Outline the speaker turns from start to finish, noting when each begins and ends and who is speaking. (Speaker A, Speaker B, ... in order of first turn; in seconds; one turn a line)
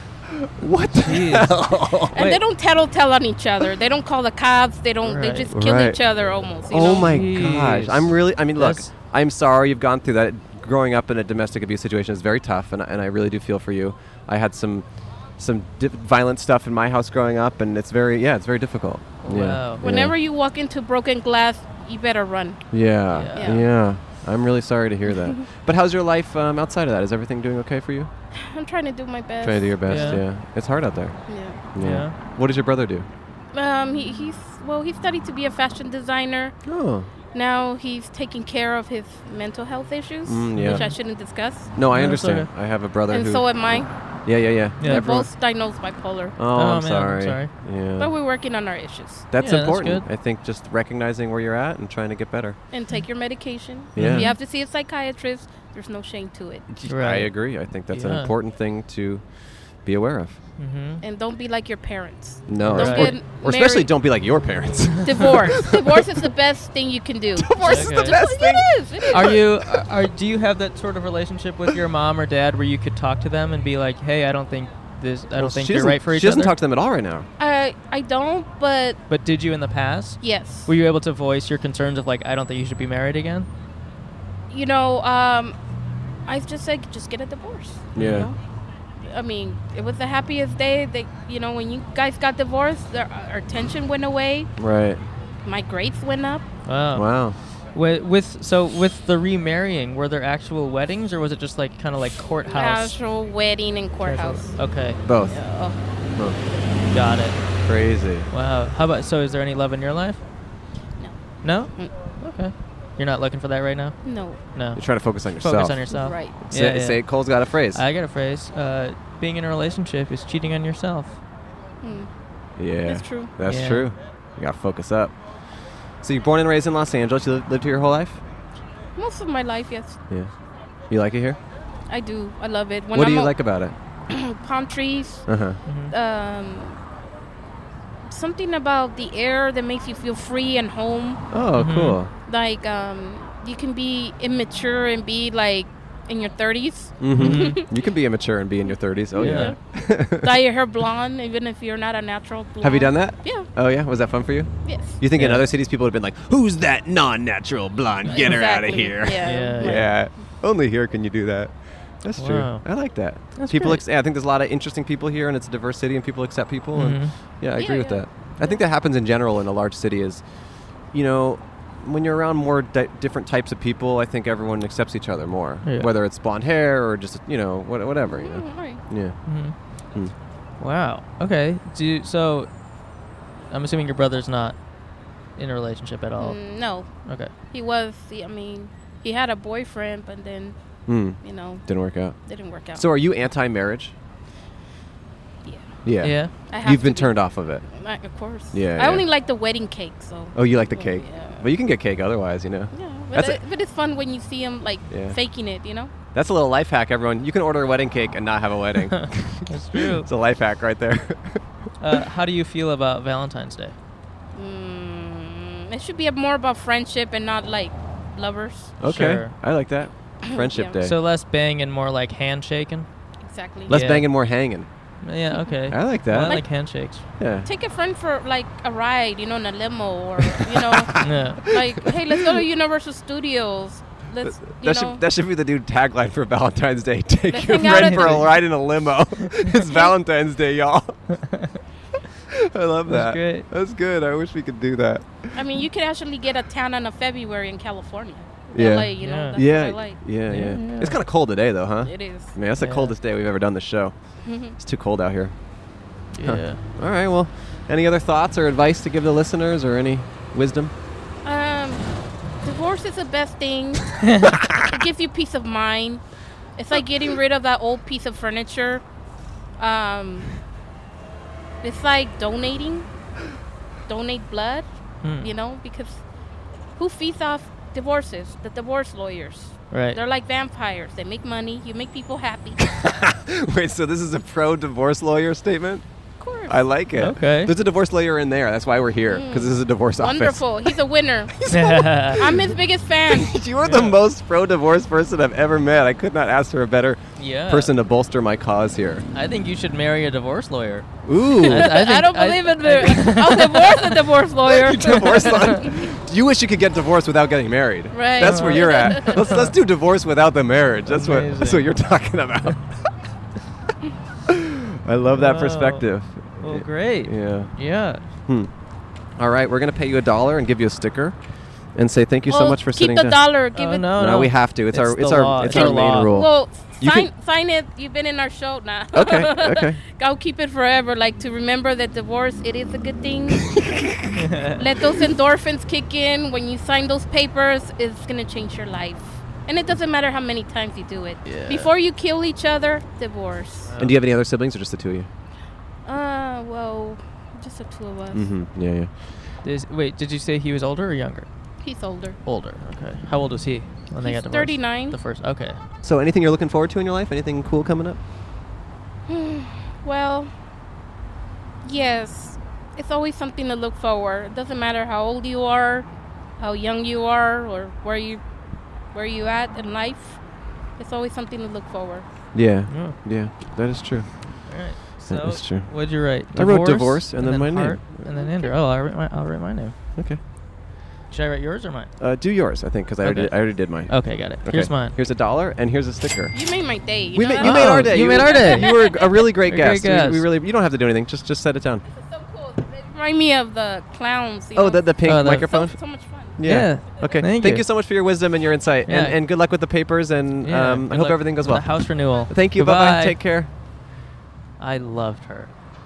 Speaker A: 0.3-2.2
Speaker B: 1.0-1.6
Speaker C: 2.1-7.2
Speaker B: 2.1-2.4
Speaker B: 5.0-5.4
Speaker A: 5.5-6.0
Speaker A: 6.7-14.9
Speaker B: 7.0-8.9
Speaker A: 15.4-20.1
Speaker B: 19.2-19.8
Speaker C: 19.8-22.6
Speaker A: 22.7-28.1
Speaker B: 23.1-23.6
Speaker C: 23.3-23.7
Speaker C: 28.3-30.2
Speaker A: 29.4-33.1
Speaker B: 29.9-30.2
Speaker C: 31.3-31.7
Speaker B: 31.8-32.1
Speaker C: 33.5-36.5
Speaker A: 36.6-37.1
Speaker C: 37.3-41.7
Speaker A: 40.3-40.9
Speaker B: 40.6-41.0
Speaker A: 41.8-43.5
Speaker B: 41.9-42.5
Speaker C: 43.1-43.9
Speaker A: 44.3-45.3
Speaker B: 44.8-45.1
Speaker C: 44.8-46.4
Speaker A: 46.4-48.1
Speaker B: 46.5-47.5
Speaker C: 48.0-49.3
Speaker A: 49.3-52.6
Speaker B: 49.4-50.1
Speaker C: 52.7-56.6
Speaker A: 54.0-54.3
Speaker B: 54.0-54.4
Speaker A: 56.7-60.4
Speaker B: 56.9-57.3
Speaker B: 57.9-58.3
Speaker B: 60.6-61.0
Speaker C: 61.0-63.9
Speaker A: 62.5-66.3
Speaker B: 62.6-63.2
Speaker C: 65.0-69.4
Speaker A: 67.3-69.8
Speaker B: 67.6-68.2
Speaker B: 69.1-76.6
Speaker A: 75.3-77.3
Speaker C: 77.4-79.0
Speaker B: 79.1-83.5
Speaker C: 80.2-80.7
Speaker C: 84.5-85.6
Speaker C: 86.3-88.4
Speaker A: 88.0-88.3
Speaker B: 88.0-88.3
Speaker C: 89.0-94.5
Speaker A: 94.6-95.0
Speaker C: 95.5-96.5
Speaker B: 96.7-97.1
Speaker A: 96.9-97.4
Speaker B: 97.7-103.0
Speaker C: 102.5-104.6
Speaker B: 104.0-105.0
Speaker A: 105.0-105.4
Speaker C: 105.3-105.8
Speaker B: 106.9-107.4
Speaker A: 107.6-108.3
Speaker B: 108.3-110.2
Speaker B: 111.4-121.2
Speaker C: 114.0-114.4
Speaker A: 114.8-115.8
Speaker C: 115.9-116.4
Speaker A: 116.4-117.8
Speaker C: 121.8-122.1
Speaker A: 122.6-125.2
Speaker C: 122.9-123.3
Speaker B: 123.5-123.9
Speaker A: 126.0-128.2
Speaker C: 129.0-130.0
Speaker A: 130.9-131.4
Speaker C: 131.9-133.4
Speaker A: 132.9-133.8
Speaker C: 134.1-135.3
Speaker A: 135.3-135.6
Speaker B: 135.7-135.9
Speaker C: 135.9-136.8
Speaker C: 138.1-141.2
Speaker A: 141.3-142.1
Speaker B: 141.6-142.0
Speaker C: 142.3-147.7
Speaker A: 147.0-150.4
Speaker B: 147.2-147.6
Speaker B: 149.1-149.5
Speaker C: 149.2-149.6
Speaker C: 150.1-153.5
Speaker A: 152.6-170.2
Speaker C: 154.7-155.0
Speaker B: 155.1-155.4
Speaker C: 158.1-160.2
Speaker B: 159.2-159.9
Speaker B: 162.2-162.7
Speaker B: 163.3-163.8
Speaker B: 166.7-167.1
Speaker C: 167.6-168.6
Speaker A: 170.9-179.2
Speaker B: 175.6-175.9
Speaker C: 178.1-178.8
Speaker B: 179.3-179.6
Speaker B: 180.6-182.5
Speaker B: 183.5-184.6
Speaker B: 185.4-186.4
Speaker C: 186.2-187.0
Speaker B: 187.0-187.3
Speaker C: 187.5-190.6
Speaker A: 190.9-192.2
Speaker C: 191.2-191.7
Speaker C: 192.2-192.9
Speaker A: 192.7-193.9
Speaker C: 195.4-201.5
Speaker A: 195.8-197.7
Speaker B: 196.0-196.3
Speaker A: 198.5-199.1
Speaker A: 200.3-203.4
Speaker C: 202.7-205.9
Speaker A: 204.9-205.2
Speaker A: 206.1-211.4
Speaker B: 208.9-210.1
Speaker B: 211.8-213.8
Speaker C: 214.3-218.8
Speaker A: 218.8-221.0
Speaker B: 218.8-219.3
Speaker C: 220.2-220.8
Speaker B: 220.8-222.9
Speaker C: 223.2-223.8
Speaker A: 223.7-224.7
Speaker B: 223.7-224.1
Speaker B: 225.0-227.0
Speaker A: 225.7-226.5
Speaker A: 227.2-227.5
Speaker C: 227.4-235.0
Speaker A: 230.4-232.4
Speaker B: 231.0-231.4
Speaker A: 234.2-241.0
Speaker C: 237.3-238.3
Speaker B: 237.6-238.3
Speaker C: 239.7-239.9
Speaker B: 241.3-241.6
Speaker A: 242.3-245.5
Speaker B: 242.9-243.5
Speaker C: 245.3-250.0
Speaker A: 248.5-253.9
Speaker B: 249.0-249.4
Speaker B: 250.2-251.0
Speaker C: 251.8-252.3
Speaker B: 252.6-252.9
Speaker C: 254.2-254.6
Speaker A: 254.5-255.3
Speaker B: 256.1-256.6
Speaker A: 256.2-260.7
Speaker C: 261.2-261.9
Speaker C: 262.4-266.0
Speaker B: 264.0-264.3
Speaker C: 266.6-268.8
Speaker C: 269.6-270.4
Speaker C: 271.6-272.9
Speaker C: 273.9-274.7
Speaker B: 275.0-275.3
Speaker C: 275.2-276.0
Speaker C: 276.8-282.6
Speaker B: 279.7-280.0
Speaker A: 282.6-285.9
Speaker C: 286.2-286.5
Speaker A: 286.5-290.8
Speaker B: 287.0-287.5
Speaker C: 289.1-291.4
Speaker A: 291.3-299.1
Speaker B: 291.5-292.2
Speaker C: 292.2-293.3
Speaker B: 293.6-294.0
Speaker B: 297.2-297.7
Speaker B: 299.1-300.9
Speaker A: 301.1-301.7
Speaker B: 301.4-304.0
Speaker C: 301.4-305.7
Speaker A: 304.5-312.9
Speaker B: 304.9-305.6
Speaker C: 307.9-309.3
Speaker B: 308.2-309.5
Speaker B: 310.9-311.7
Speaker A: 314.3-317.6
Speaker B: 315.1-318.0
Speaker A: 319.2-321.2
Speaker A: 321.8-323.2
Speaker C: 322.3-323.9
Speaker B: 323.6-326.2
Speaker A: 323.9-327.1
Speaker C: 325.4-333.6
Speaker A: 328.9-329.8
Speaker A: 333.5-333.9
Speaker B: 334.1-334.6
Speaker C: 334.5-343.7
Speaker B: 341.2-341.7
Speaker B: 343.7-344.0
Speaker A: 343.8-345.1
Speaker C: 345.9-348.3
Speaker A: 348.1-348.9
Speaker B: 349.4-351.3
Speaker C: 351.6-352.2
Speaker B: 352.2-355.6
Speaker C: 354.0-355.0
Speaker A: 355.8-358.0
Speaker C: 359.1-360.3
Speaker C: 361.6-365.9
Speaker C: 366.4-368.2
Speaker C: 368.9-370.2
Speaker C: 370.8-372.1
Speaker A: 372.3-374.1
Speaker B: 372.7-373.0
Speaker B: 374.5-379.8
Speaker A: 375.1-378.1
Speaker C: 378.1-378.5
Speaker B: 381.1-381.9
Speaker A: 382.0-386.4
Speaker B: 383.0-385.0
Speaker C: 386.3-389.3
Speaker A: 387.1-391.8
Speaker B: 387.4-388.9
Speaker B: 389.4-390.3
Speaker C: 391.9-396.4
Speaker A: 394.6-395.8
Speaker B: 395.0-395.5
Speaker A: 396.4-403.5
Speaker B: 396.4-397.7
Speaker B: 398.9-399.2
Speaker B: 400.4-403.2
Speaker B: 404.6-405.5